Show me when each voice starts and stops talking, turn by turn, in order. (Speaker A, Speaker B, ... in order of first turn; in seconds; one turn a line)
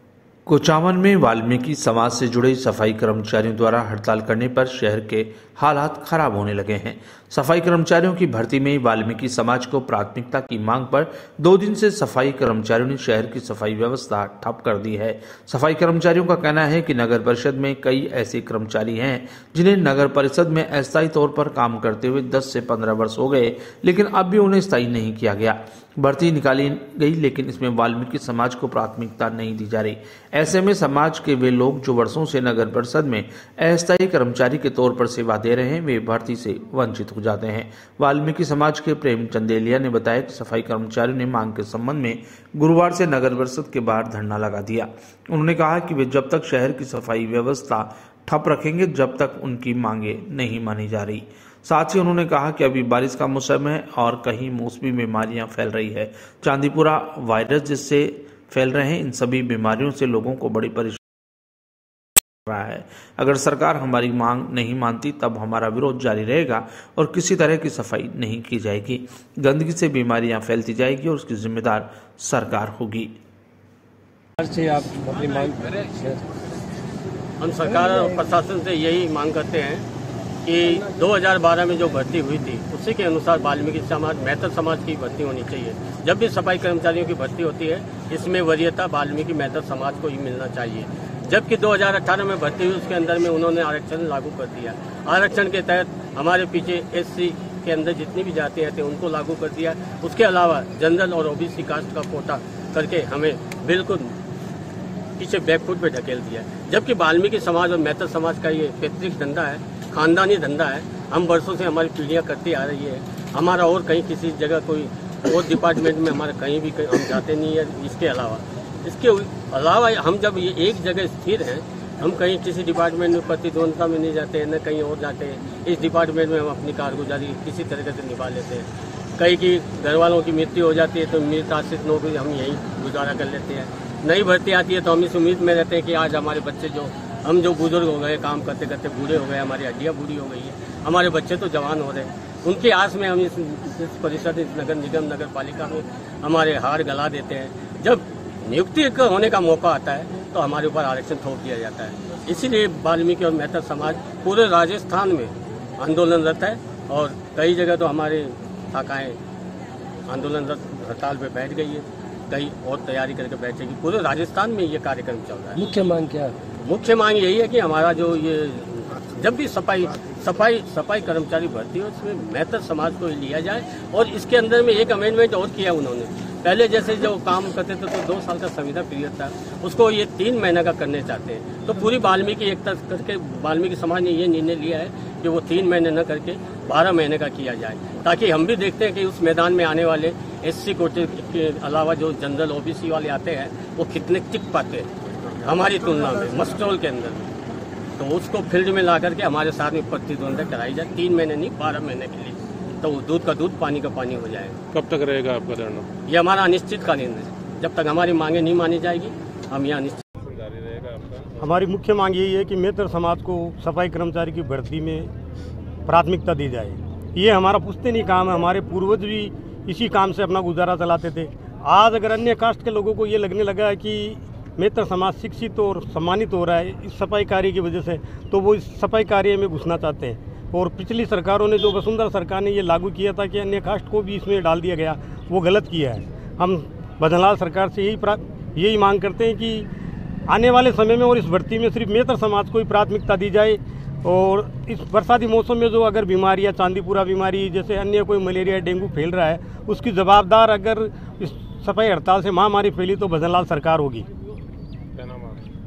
Speaker A: 0.5-61.0
Speaker A: 62.5-73.1
Speaker B: 74.4-76.2
Speaker C: 77.4-79.8
Speaker B: 77.7-78.2
Speaker C: 80.4-104.1
Speaker C: 105.2-159.2
Speaker C: 160.1-165.6
Speaker B: 165.6-166.4
Speaker C: 166.5-194.9
Speaker C: 195.4-197.3
Speaker C: 198.0-204.6
Speaker D: 204.7-205.9
Speaker C: 206.1-210.1
Speaker D: 210.3-211.3
Speaker E: 211.4-215.1
Speaker E: 215.9-239.7
Speaker E: 240.3-254.1
Speaker D: 255.0-255.3